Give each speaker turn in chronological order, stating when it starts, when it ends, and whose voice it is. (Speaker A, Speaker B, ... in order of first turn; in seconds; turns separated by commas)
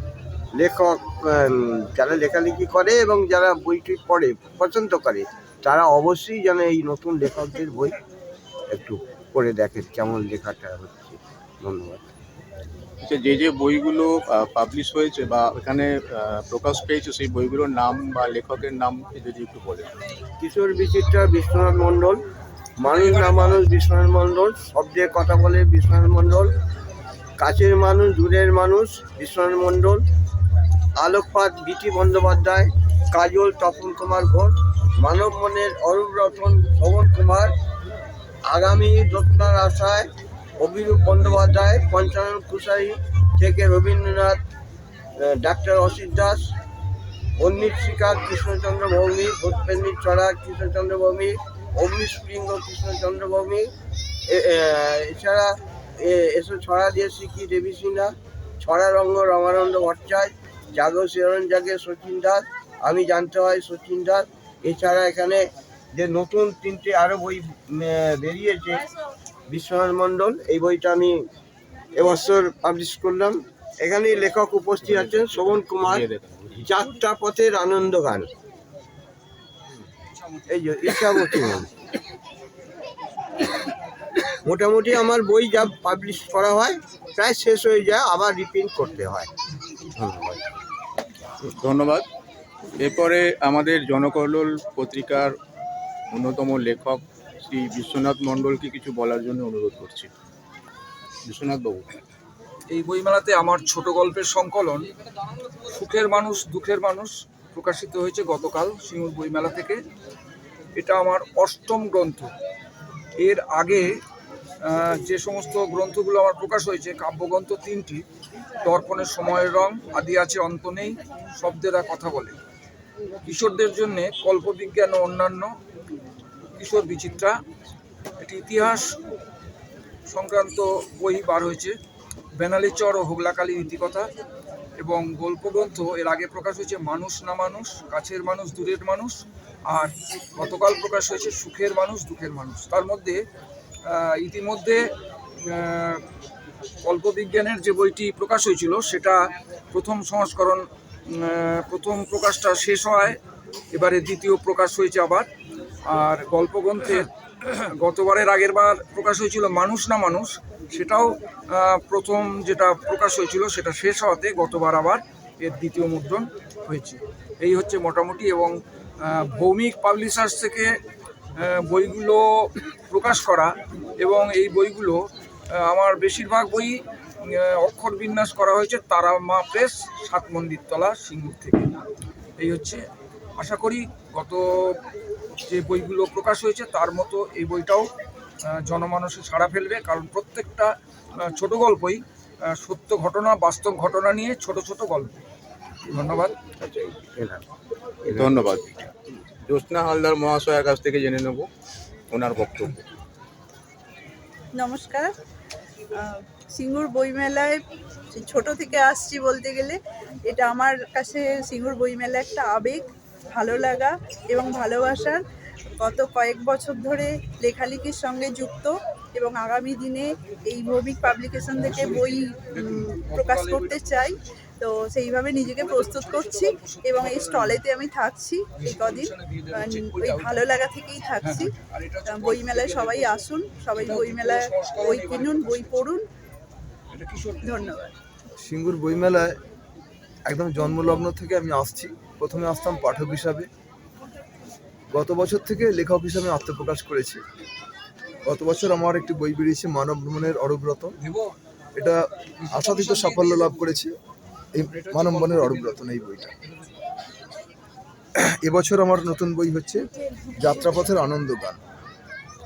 Speaker A: 0.6-8.0, Speaker A: 8.7-12.1, Speaker B: 13.0-20.0, Speaker A: 20.4-22.2, Speaker A: 22.8-26.5, Speaker C: 22.9-23.6, Speaker A: 27.4-30.0, Speaker A: 31.0-37.5, Speaker A: 38.5-44.4, Speaker A: 45.2-46.4, Speaker A: 47.4-53.7, Speaker A: 54.3-68.9, Speaker A: 69.5-71.2, Speaker A: 72.0-76.1, Speaker B: 74.8-76.7, Speaker A: 76.6-78.3, Speaker C: 80.2-80.4, Speaker A: 80.5-81.7, Speaker A: 84.5-89.3, Speaker A: 90.0-90.4, Speaker B: 91.6-92.0, Speaker B: 92.8-95.3, Speaker B: 96.1-100.1, Speaker B: 101.2-101.9, Speaker C: 102.7-104.8, Speaker C: 105.7-109.8, Speaker C: 110.8-112.3, Speaker C: 113.2-113.9, Speaker C: 114.7-118.0, Speaker C: 118.6-122.4, Speaker C: 123.3-125.5, Speaker C: 126.6-127.3, Speaker C: 128.2-128.9, Speaker C: 130.1-131.7, Speaker C: 132.4-134.1, Speaker C: 134.8-143.2, Speaker C: 143.9-144.8, Speaker C: 145.5-146.0, Speaker C: 146.8-149.2, Speaker C: 149.7-153.2, Speaker C: 153.7-155.3, Speaker C: 155.9-168.6, Speaker C: 169.1-170.7, Speaker C: 171.4-175.0, Speaker C: 175.6-176.8, Speaker C: 177.3-181.7, Speaker C: 182.4-182.8, Speaker C: 183.4-184.4, Speaker C: 185.5-187.9, Speaker C: 188.7-190.7, Speaker C: 191.3-192.0, Speaker C: 192.6-195.2, Speaker C: 195.9-196.3, Speaker A: 196.6-197.4, Speaker A: 198.1-198.4, Speaker B: 198.1-198.9, Speaker B: 199.5-201.5, Speaker B: 202.1-202.8, Speaker D: 204.5-205.1, Speaker D: 206.0-207.6, Speaker D: 208.1-215.2, Speaker D: 215.8-236.1, Speaker C: 221.6-223.7, Speaker C: 225.6-227.6, Speaker C: 228.6-230.3, Speaker C: 231.3-233.1, Speaker C: 233.8-235.8, Speaker C: 236.9-237.6, Speaker D: 237.4-237.9, Speaker E: 238.4-239.3, Speaker E: 240.3-243.5, Speaker E: 244.9-247.2, Speaker E: 248.3-250.9, Speaker C: 251.0-251.3, Speaker E: 252.5-253.9, Speaker C: 252.7-253.6, Speaker E: 254.6-256.3, Speaker C: 254.8-255.8, Speaker E: 258.4-259.8, Speaker E: 260.4-261.6